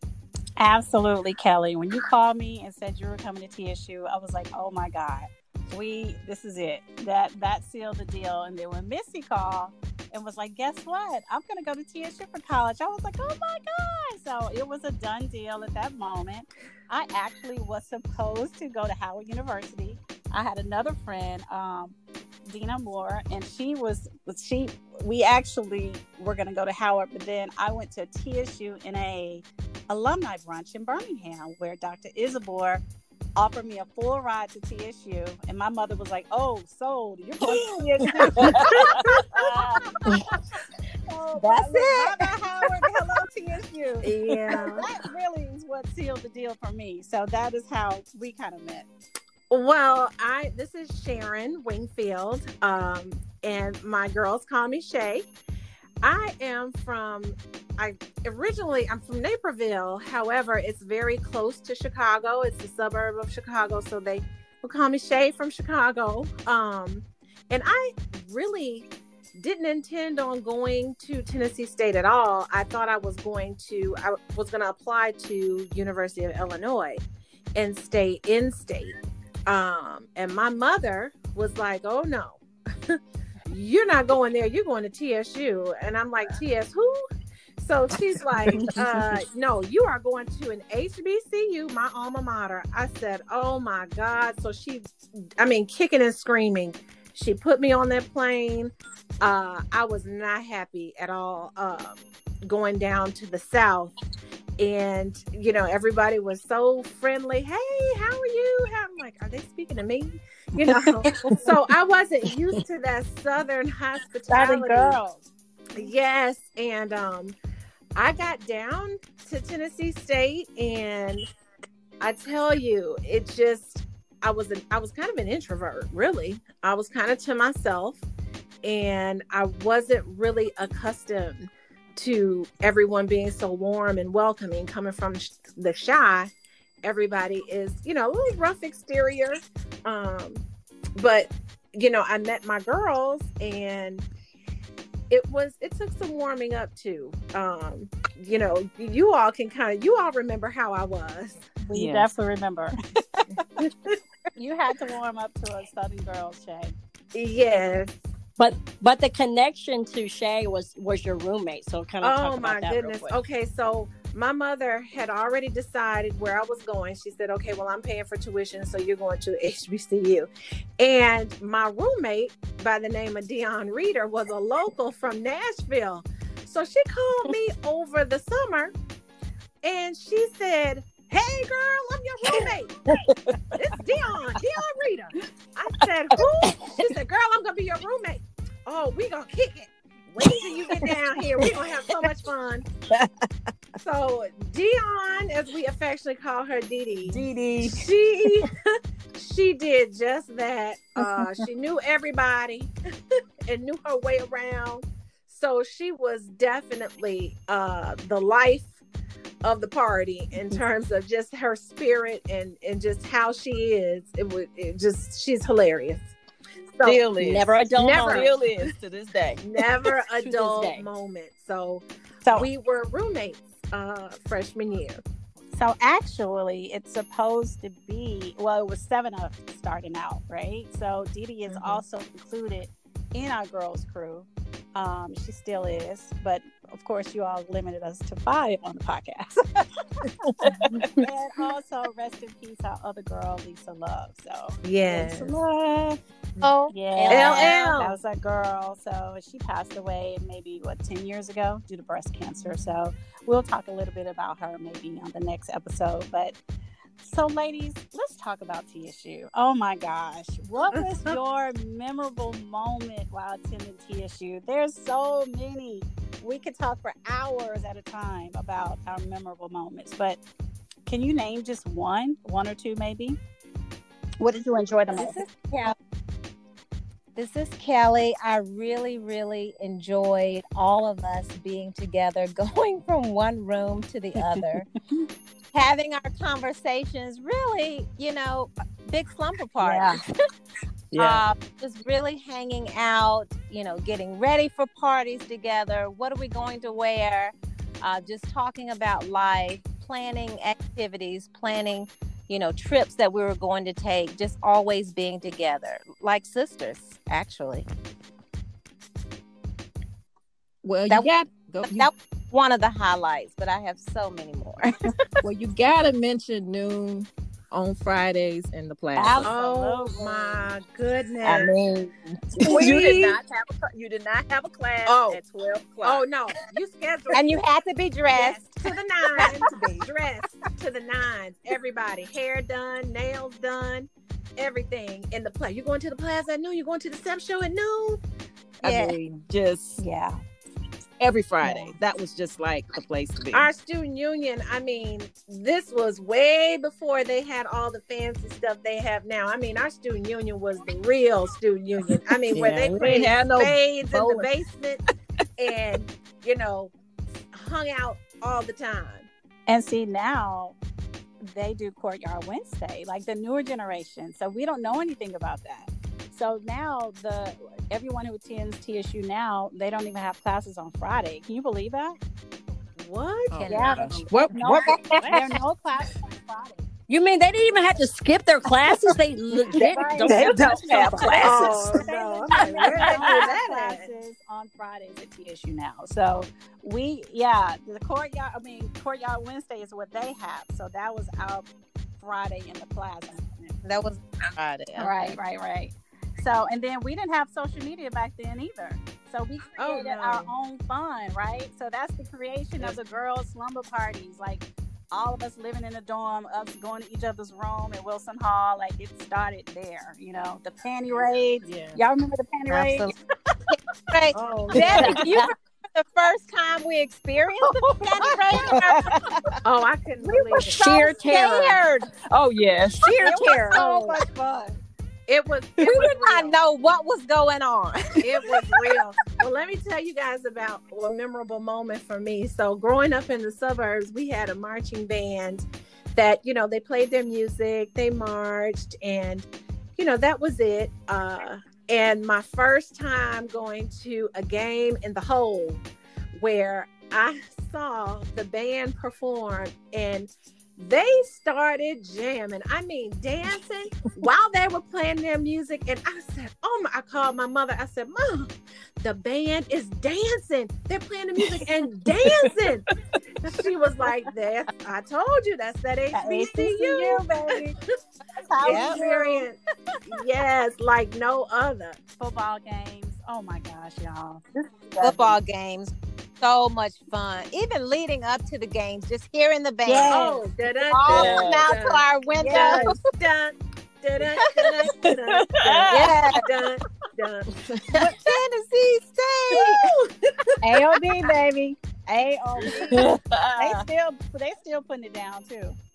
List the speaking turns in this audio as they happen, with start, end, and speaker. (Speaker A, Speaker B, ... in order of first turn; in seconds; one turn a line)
Speaker A: 0.6-32.8
Speaker A: 33.4-39.9
Speaker B: 37.6-39.0
Speaker C: 38.8-39.3
Speaker A: 41.1-48.9
Speaker D: 41.7-42.0
Speaker C: 44.0-44.9
Speaker C: 49.5-55.3
Speaker C: 56.0-77.0
Speaker C: 77.6-79.0
Speaker C: 79.5-87.0
Speaker C: 87.6-103.9
Speaker E: 88.5-88.9
Speaker C: 104.6-115.0
Speaker A: 114.3-115.2
Speaker C: 115.8-117.4
Speaker C: 118.0-121.3
Speaker C: 122.0-128.0
Speaker C: 128.6-136.3
Speaker C: 136.8-140.4
Speaker C: 141.0-144.1
Speaker C: 145.1-151.5
Speaker A: 151.6-152.8
Speaker B: 151.7-152.1
Speaker C: 153.6-154.0
Speaker A: 154.3-156.8
Speaker C: 157.1-158.0
Speaker E: 158.4-163.2
Speaker C: 162.0-178.7
Speaker C: 179.6-182.8
Speaker B: 182.9-183.6
Speaker C: 183.6-192.7
Speaker B: 190.2-190.5
Speaker C: 193.8-198.5
Speaker B: 197.0-197.8
Speaker C: 199.2-202.7
Speaker C: 203.5-208.8
Speaker C: 209.4-216.1
Speaker C: 216.8-217.1
Speaker B: 216.8-219.4
Speaker E: 217.2-218.3
Speaker C: 217.8-218.4
Speaker C: 219.4-225.0
Speaker E: 220.2-220.9
Speaker A: 225.5-239.7
Speaker B: 240.2-240.9
Speaker C: 240.7-241.0
Speaker A: 241.0-245.8
Speaker C: 244.6-245.3
Speaker B: 245.4-245.9
Speaker D: 246.4-247.6
Speaker A: 246.7-256.4
Speaker C: 247.1-248.0
Speaker A: 257.0-270.2
Speaker A: 270.9-273.2
Speaker A: 274.2-275.2
Speaker D: 274.9-275.8
Speaker D: 277.1-284.7
Speaker D: 285.5-289.9
Speaker A: 289.6-290.0
Speaker B: 290.9-291.2
Speaker D: 291.0-307.7
Speaker B: 310.6-311.9
Speaker D: 311.6-314.8
Speaker B: 315.2-319.3
Speaker A: 318.9-320.5
Speaker C: 319.2-321.6
Speaker B: 321.2-326.1
Speaker A: 322.4-322.8
Speaker C: 322.4-323.2
Speaker C: 324.9-325.2
Speaker C: 325.8-327.3
Speaker D: 327.1-328.4
Speaker C: 328.1-338.0
Speaker B: 338.6-339.8
Speaker D: 338.6-339.0
Speaker A: 339.8-340.2
Speaker B: 341.0-343.5
Speaker A: 341.4-341.8
Speaker C: 343.3-354.8
Speaker B: 352.3-354.3
Speaker C: 355.4-356.7
Speaker C: 357.3-359.1
Speaker A: 359.5-360.6
Speaker A: 361.2-372.0
Speaker C: 372.8-373.8
Speaker B: 373.3-375.3
Speaker D: 373.4-374.1
Speaker A: 373.5-376.6
Speaker E: 376.9-381.2
Speaker B: 379.5-381.9
Speaker A: 379.5-391.5
Speaker C: 381.2-383.9
Speaker B: 382.6-383.3
Speaker A: 392.0-393.6
Speaker D: 393.6-395.2
Speaker A: 394.8-412.9
Speaker C: 399.6-400.3
Speaker B: 411.5-411.8
Speaker D: 412.5-412.9
Speaker D: 413.5-418.8
Speaker B: 414.1-415.1
Speaker C: 414.3-415.0
Speaker B: 418.5-419.4
Speaker C: 419.4-421.4
Speaker B: 420.2-420.8
Speaker E: 420.5-421.6
Speaker D: 421.1-421.6
Speaker B: 421.8-423.5
Speaker A: 422.9-424.6
Speaker C: 422.9-424.0
Speaker C: 425.1-426.3
Speaker D: 425.6-428.1
Speaker C: 428.0-462.7
Speaker B: 461.2-461.5
Speaker B: 462.0-463.0
Speaker C: 463.3-467.4
Speaker A: 465.9-467.6
Speaker A: 468.2-469.3
Speaker C: 468.4-471.8
Speaker D: 468.4-468.8
Speaker A: 472.0-475.2
Speaker D: 474.8-480.1
Speaker A: 479.6-480.2
Speaker C: 479.9-487.3
Speaker D: 480.7-482.8
Speaker B: 480.9-481.5
Speaker A: 482.2-482.7
Speaker B: 484.6-486.2
Speaker D: 485.7-486.2
Speaker B: 487.3-488.0
Speaker D: 487.7-489.6
Speaker C: 489.4-489.9
Speaker A: 490.4-495.6
Speaker B: 492.7-493.7